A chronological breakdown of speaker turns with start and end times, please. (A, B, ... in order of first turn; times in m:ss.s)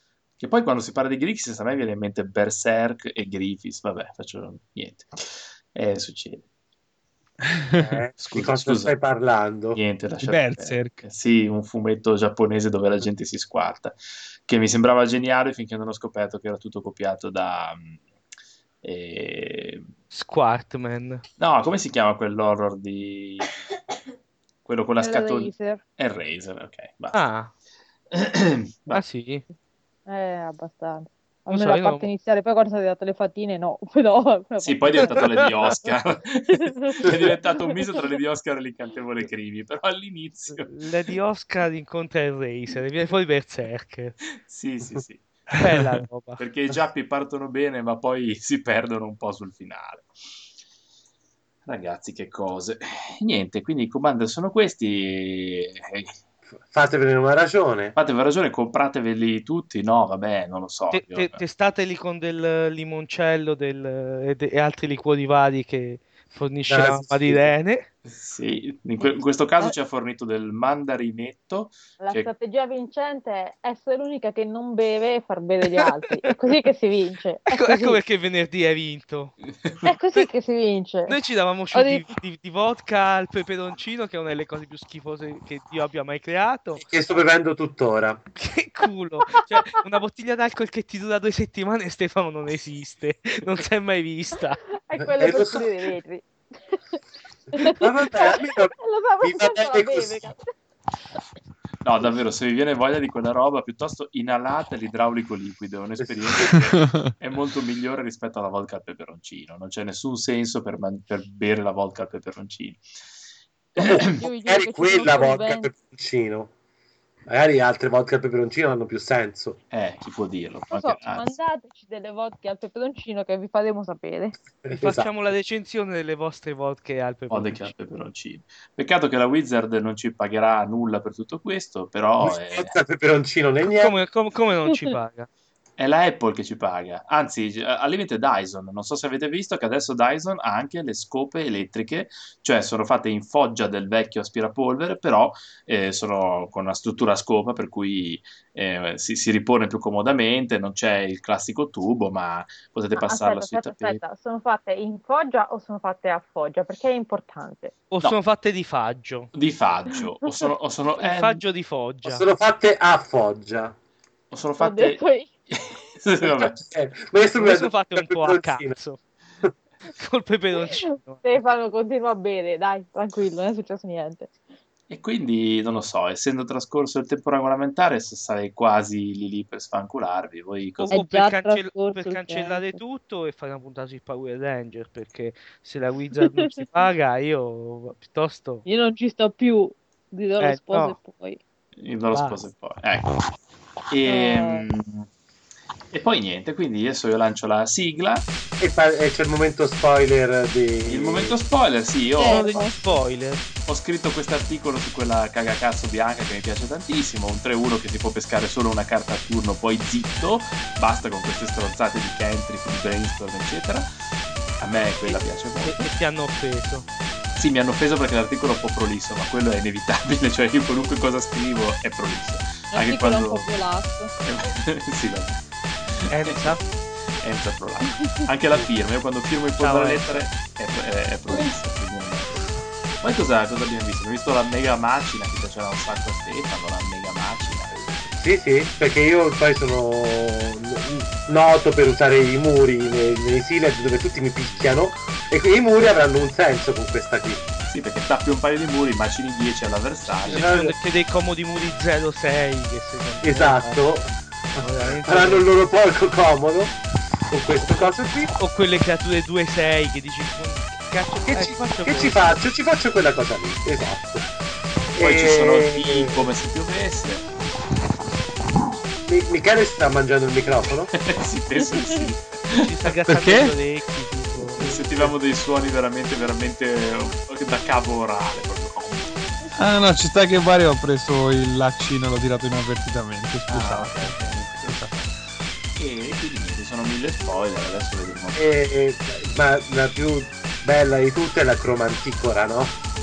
0:00.4-0:06.4 A
0:07.5-0:07.9 B
0:07.7-0:09.8 C
0:08.2-0:08.9 A
0:09.7-0:18.0 A
0:10.2-0:11.0 B
0:18.8-0:19.9 A
0:20.1-0:21.2 D
0:21.4-0:23.6 A
0:24.6-0:27.2 A
0:25.0-0:25.8 E
0:27.1-0:27.5 D
0:28.1-0:29.0 A
0:28.9-0:29.4 D
0:30.1-0:35.4 E
0:31.5-0:32.1 D
0:34.6-0:40.8 A
0:36.5-0:37.3 E
0:40.5-0:44.2 D
0:44.4-0:45.3 A
0:45.6-0:46.4 D
0:46.4-0:50.1 A
0:51.7-0:56.1 A
0:56.6-0:58.0 C
0:58.0-1:01.4 A
1:00.9-1:07.9 D
1:06.7-1:07.5 C
1:08.0-1:12.3 A
1:12.0-1:18.0 E
1:15.7-1:16.1 D
1:17.5-1:19.4 D
1:19.5-1:19.9 A
1:19.8-1:21.2 E
1:21.1-1:26.9 D
1:21.7-1:22.0 E
1:26.8-1:28.2 C
1:28.4-1:34.6 D
1:29.4-1:29.7 E
1:34.8-1:36.8 E
1:35.0-1:35.7 C
1:37.5-1:40.4 E
1:37.5-1:40.2 C
1:41.8-1:52.8 A
1:46.0-1:46.3 C
1:53.8-1:54.0 A
1:53.8-1:56.5 C
1:54.2-1:55.7 E
1:57.3-1:59.6 C
1:59.7-2:01.4 A
2:00.7-2:04.4 E
2:04.6-2:05.1 C
2:04.8-2:07.7 D
2:07.3-2:12.8 A
2:12.2-2:14.0 C
2:13.6-2:15.3 D
2:15.8-2:34.0 A
2:33.0-2:37.7 E
2:37.9-2:39.3 D
2:39.3-2:41.4 A
2:41.0-2:42.2 D
2:42.0-2:43.7 C
2:44.3-2:46.7 A
2:44.6-2:45.3 E
2:46.2-2:48.8 C
2:47.4-2:49.0 D
2:49.9-2:51.3 D
2:50.6-2:54.3 E
2:54.9-3:01.0 A
3:00.8-3:08.6 D
3:00.9-3:02.8 E
3:08.7-3:11.4 E
3:10.4-3:11.0 D
3:11.8-3:13.2 A
3:12.1-3:12.4 D
3:13.9-3:15.1 A
3:14.1-3:14.7 E
3:15.9-3:18.3 A
3:18.6-3:21.4 C
3:20.8-3:22.8 A
3:22.2-3:22.9 E
3:22.2-3:23.4 D
3:23.7-3:33.9 A
3:34.6-3:35.9 A
3:35.1-3:36.9 D
3:37.4-3:43.6 A
3:42.7-3:44.1 E
3:44.2-3:46.6 A
3:46.1-3:46.6 D
3:47.2-3:58.2 A
3:49.6-3:50.3 D
3:58.2-4:07.4 C
4:07.7-4:10.5 A
4:10.3-4:13.8 D
4:10.3-4:10.8 C
4:13.2-4:16.8 C
4:14.6-4:15.5 D
4:17.3-4:18.3 C
4:18.4-4:22.4 D
4:21.3-4:24.3 C
4:24.9-4:26.2 C
4:25.0-4:27.3 A
4:29.1-4:30.9 C
4:30.9-4:32.6 A
4:31.7-4:32.0 E
4:32.5-4:34.6 D
4:33.1-4:33.5 B
4:34.6-4:39.2 A
4:39.5-4:45.0 B
4:43.5-4:45.1 A
4:45.8-4:48.4 A
4:48.4-4:52.8 C